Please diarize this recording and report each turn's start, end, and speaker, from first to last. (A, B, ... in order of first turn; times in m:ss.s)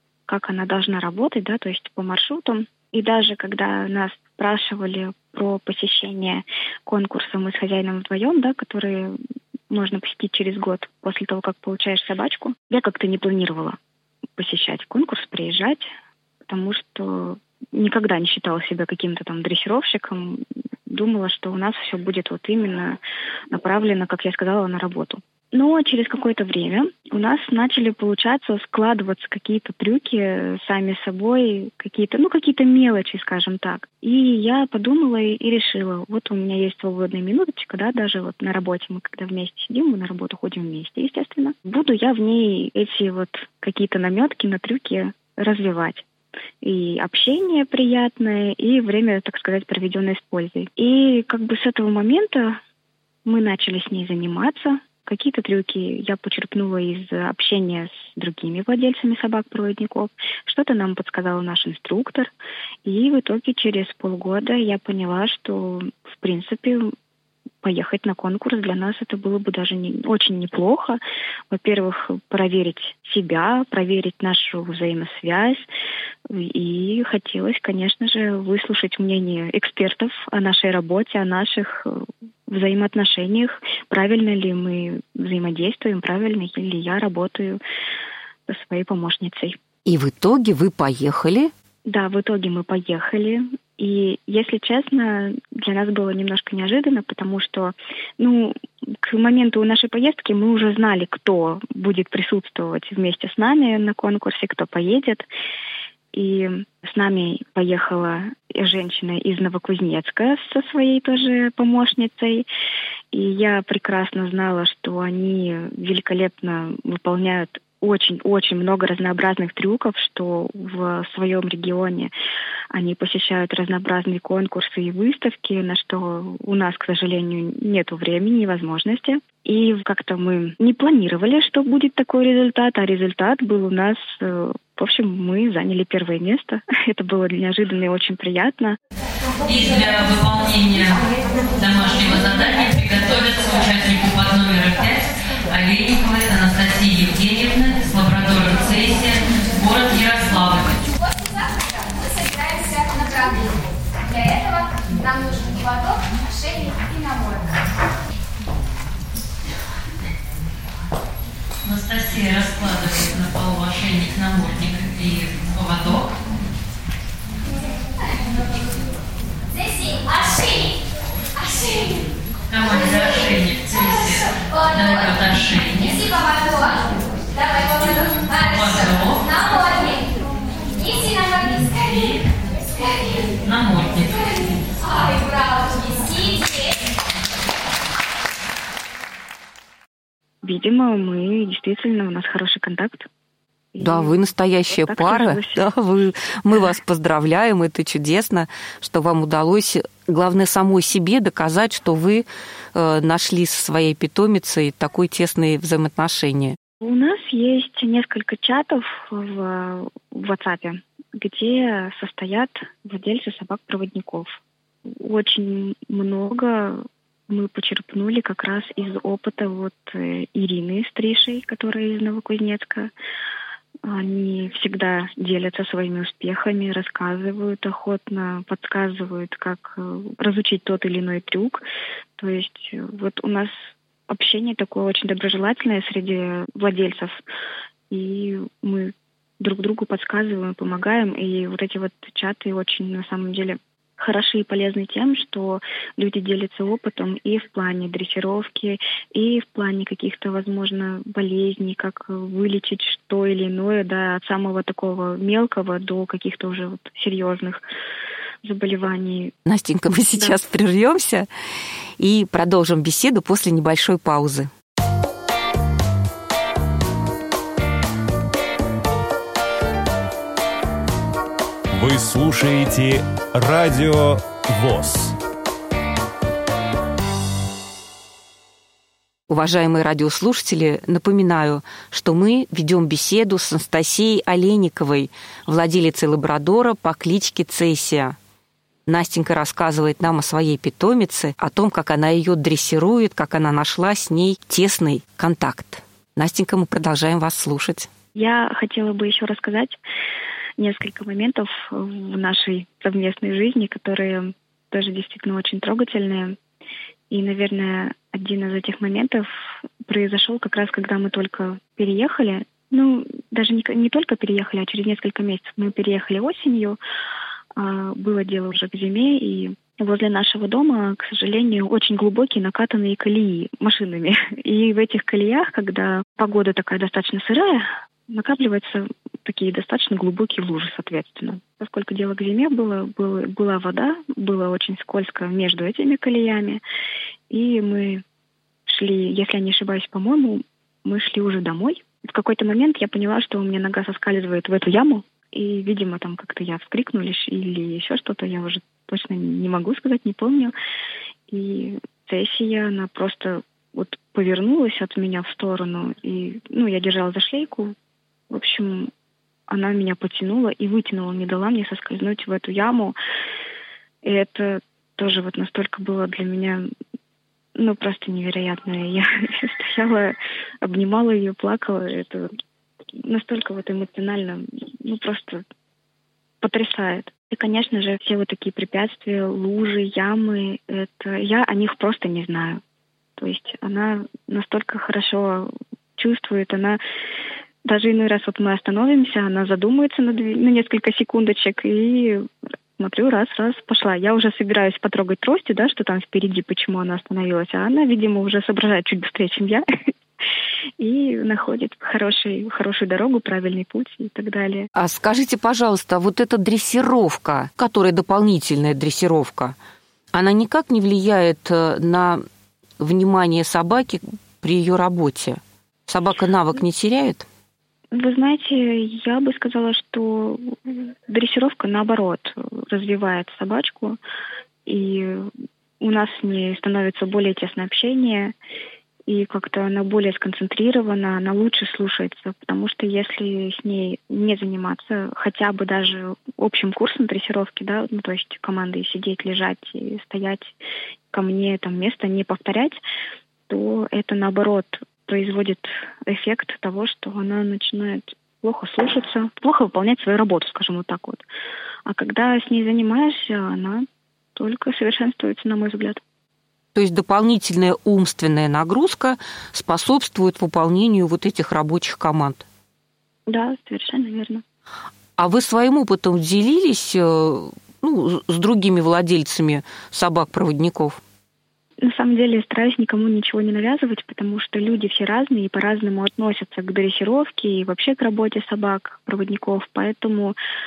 0:00.3-0:09.2 A
0:09.7-0:13.8 A
0:14.4-0:15.9 A
0:16.5-0:23.0 A
0:23.5-0:46.0 A
0:46.6-0:52.6 A
0:53.2-1:02.3 A
1:02.8-1:06.9 A
1:07.6-1:11.0 A
1:11.5-1:15.7 A
1:16.3-1:27.6 A
1:28.5-1:29.6 A
1:29.9-1:31.5 B
1:31.9-1:45.3 A
1:46.1-1:52.5 A
1:53.1-2:02.1 A
2:02.7-2:18.8 A
2:19.4-2:30.9 C
2:31.3-2:37.6 D
2:41.6-2:46.2 C
2:49.5-2:50.8 D
2:51.4-2:52.0 D
2:52.5-2:56.1 C
2:56.0-2:58.4 D
2:58.3-2:59.3 C
2:59.2-3:00.1 D
3:00.8-3:01.8 D
3:01.8-3:02.2 C
3:03.4-3:04.4 C
3:05.0-3:06.8 D
3:10.4-3:13.1 A
3:13.7-3:15.6 A
3:13.8-3:26.6 B
3:26.8-3:42.9 A
3:43.8-3:51.6 A
3:52.2-3:57.2 A
3:57.9-4:17.6 A
4:18.4-4:19.3 A
4:19.5-4:21.3 B
4:22.0-4:24.5 B
4:31.7-4:35.2 E
4:39.3-4:48.2 B
4:48.9-4:57.9 B
4:58.2-4:59.8 A
5:00.6-5:06.4 A
5:07.1-5:09.3 A
5:09.8-5:16.8 A
5:17.6-5:36.6 A
5:37.3-5:38.0 A
5:38.7-5:50.5 A
5:51.3-5:57.8 A
5:58.3-5:58.9 A
5:59.5-6:03.0 A
6:04.0-6:06.7 A
6:07.6-6:12.3 A
6:13.0-6:15.4 A
6:16.4-6:22.6 A
6:23.2-6:26.8 A
6:27.6-6:32.3 A
6:32.8-6:39.6 A
6:40.8-6:44.7 A
6:44.8-6:49.6 B
6:50.1-6:52.2 B
6:52.8-6:57.3 B
6:57.9-7:04.0 A
7:04.7-7:08.3 A
7:09.1-7:20.6 A
7:21.1-7:22.8 A
7:23.5-7:31.2 A
7:31.9-7:33.8 A
7:34.4-7:36.0 A
7:36.8-7:42.4 B
7:43.3-7:44.4 A
7:45.2-7:51.0 B
7:51.8-8:00.4 A